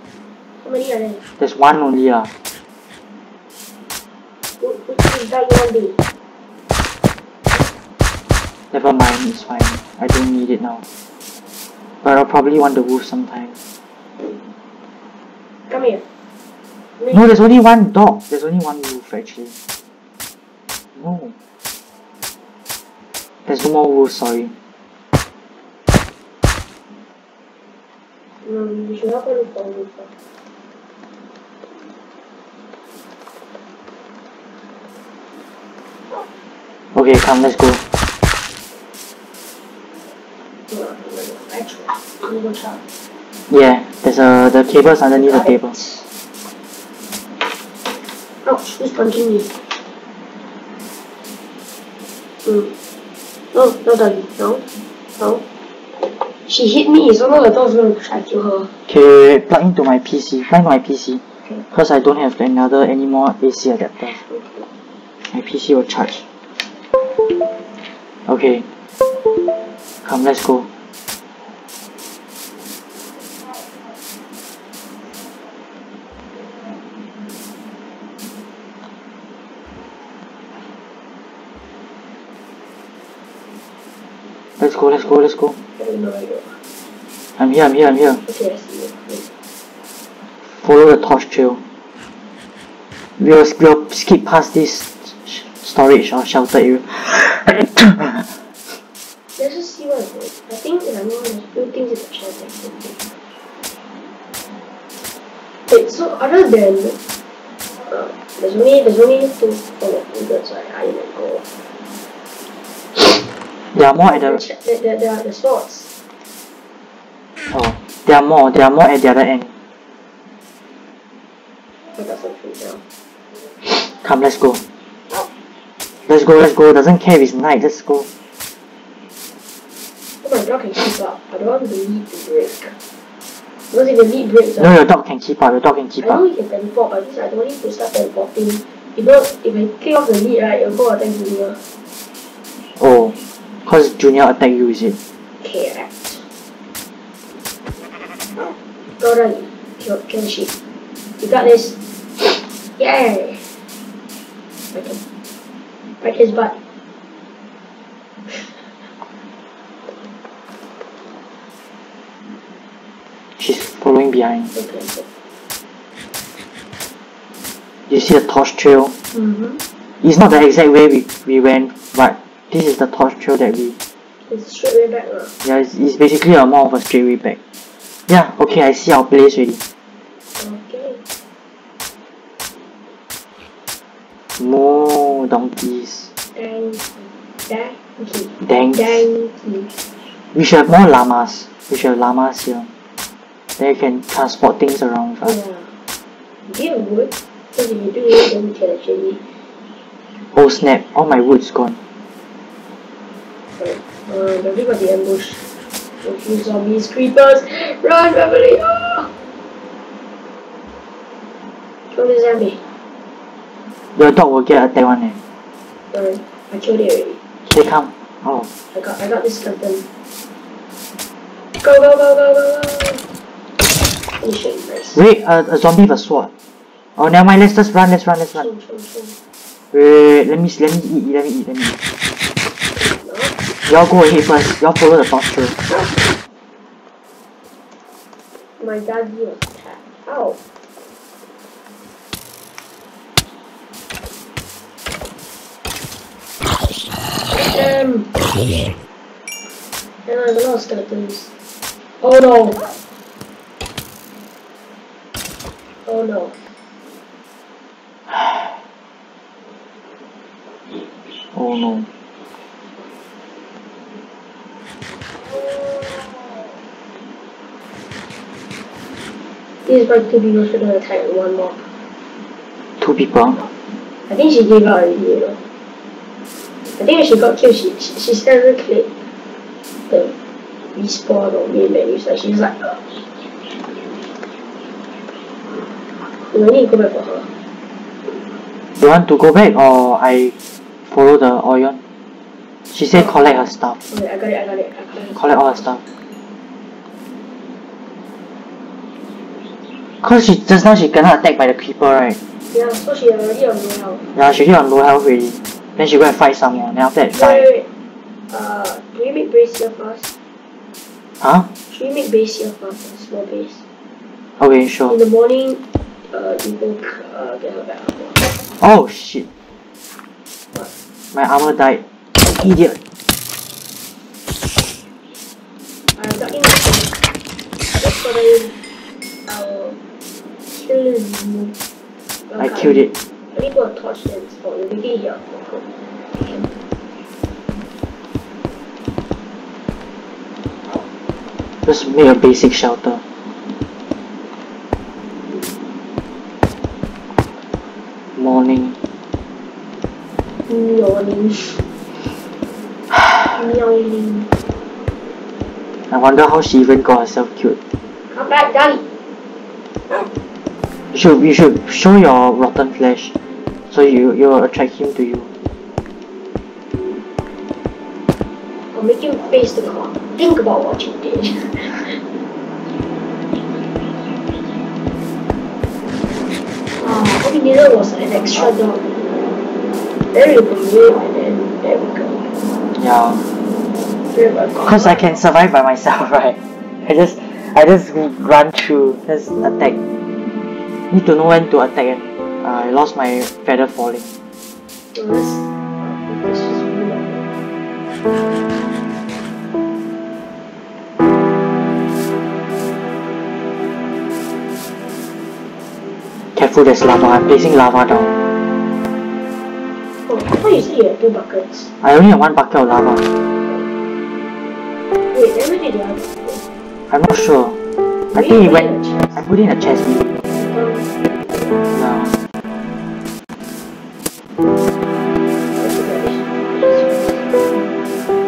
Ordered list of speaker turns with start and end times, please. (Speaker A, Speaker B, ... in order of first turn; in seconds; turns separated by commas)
Speaker A: 0.6-1.3, Speaker B: 1.4-2.3, Speaker A: 4.6-6.0, Speaker B: 8.7-10.8, Speaker B: 12.0-13.6, Speaker A: 15.7-16.0, Speaker A: 17.0-17.4, Speaker B: 17.1-19.5, Speaker B: 20.9-21.3, Speaker B: 23.5-24.5, Speaker A: 28.4-30.1, Speaker B: 36.9-37.8, Speaker A: 40.7-42.8, Speaker B: 43.5-45.8, Speaker A: 45.1-46.0, Speaker A: 48.4-49.6, Speaker A: 52.4-52.7, Speaker A: 53.5-54.6, Speaker A: 56.0-58.7, Speaker B: 58.9-64.2, Speaker A: 64.1-64.7, Speaker B: 65.2-66.2, Speaker B: 68.3-68.7, Speaker B: 70.0-70.7, Speaker B: 84.6-85.6, Speaker A: 85.8-86.6, Speaker B: 87.4-88.2, Speaker A: 88.2-89.3, Speaker B: 90.5-91.6, Speaker B: 93.2-98.8, Speaker A: 99.4-103.0, Speaker A: 105.7-107.0, Speaker A: 107.8-111.4, Speaker B: 113.7-114.4, Speaker A: 114.0-115.9, Speaker B: 117.5-119.5, Speaker A: 121.9-122.8, Speaker B: 123.6-124.6, Speaker B: 126.1-128.1, Speaker A: 130.2-132.7, Speaker A: 133.7-134.7, Speaker B: 134.6-136.2, Speaker A: 136.0-141.6, Speaker B: 142.8-144.9, Speaker A: 145.4-146.2, Speaker A: 149.0-150.5, Speaker A: 151.2-153.6, Speaker A: 154.7-155.0, Speaker A: 156.0-156.6, Speaker A: 158.3-158.7, Speaker B: 163.4-164.5, Speaker A: 164.5-165.1, Speaker B: 167.9-168.9, Speaker A: 169.1-169.6, Speaker B: 170.0-173.8, Speaker A: 174.2-175.3, Speaker B: 175.4-177.4, Speaker B: 178.1-179.6, Speaker A: 180.4-181.0, Speaker B: 184.4-186.1, Speaker A: 186.3-189.7, Speaker B: 188.4-189.0, Speaker B: 190.3-192.7, Speaker B: 193.6-195.4, Speaker A: 195.2-195.7, Speaker A: 196.5-199.2, Speaker B: 200.2-201.8, Speaker A: 203.6-205.4, Speaker A: 206.0-209.1, Speaker A: 211.9-212.6, Speaker B: 213.9-215.2, Speaker A: 215.9-217.2, Speaker B: 217.5-218.5, Speaker A: 218.7-219.8, Speaker A: 221.6-223.0, Speaker A: 224.2-225.0, Speaker B: 224.9-226.3, Speaker B: 227.0-228.5, Speaker A: 228.3-229.2, Speaker B: 229.7-231.8, Speaker A: 232.7-233.4, Speaker B: 233.7-235.6, Speaker A: 238.6-240.4, Speaker A: 247.3-248.2, Speaker A: 250.1-251.3, Speaker A: 252.0-252.7, Speaker A: 255.9-256.4, Speaker B: 258.1-258.6, Speaker B: 261.3-261.9, Speaker A: 265.8-266.4, Speaker A: 269.7-271.7, Speaker B: 272.8-273.5, Speaker A: 274.1-275.4, Speaker A: 276.7-278.9, Speaker A: 279.9-280.1, Speaker A: 280.7-282.9, Speaker A: 286.0-287.3, Speaker B: 288.8-290.3, Speaker B: 290.9-291.8, Speaker B: 292.7-293.8, Speaker A: 293.9-295.6, Speaker B: 295.1-295.8, Speaker B: 300.0-302.2, Speaker A: 302.5-304.1, Speaker B: 304.1-307.5, Speaker A: 307.1-307.7, Speaker A: 308.3-310.1, Speaker B: 311.2-311.5, Speaker A: 311.7-313.6, Speaker B: 314.4-314.9, Speaker A: 314.9-318.2, Speaker B: 318.6-319.3, Speaker B: 321.1-322.8, Speaker A: 325.9-326.9, Speaker A: 327.7-328.6, Speaker A: 329.3-329.8, Speaker A: 330.5-331.6, Speaker A: 332.3-336.5, Speaker B: 332.4-332.9, Speaker B: 341.7-343.0, Speaker B: 348.2-348.8, Speaker A: 350.5-351.6, Speaker A: 353.2-354.3, Speaker B: 355.9-357.6, Speaker A: 358.1-358.8, Speaker B: 360.9-363.1, Speaker B: 363.7-365.3, Speaker A: 368.7-372.0, Speaker A: 376.8-378.9, Speaker A: 380.1-382.3, Speaker B: 382.7-383.2, Speaker A: 384.1-385.2, Speaker B: 384.6-389.8, Speaker B: 390.9-394.1, Speaker A: 394.9-397.2, Speaker B: 406.3-408.1, Speaker A: 410.1-411.7, Speaker B: 411.8-413.1, Speaker A: 415.1-416.4, Speaker B: 416.9-417.6, Speaker A: 418.1-419.2, Speaker B: 418.1-420.2, Speaker A: 420.2-421.6, Speaker B: 421.7-422.2, Speaker A: 425.6-427.2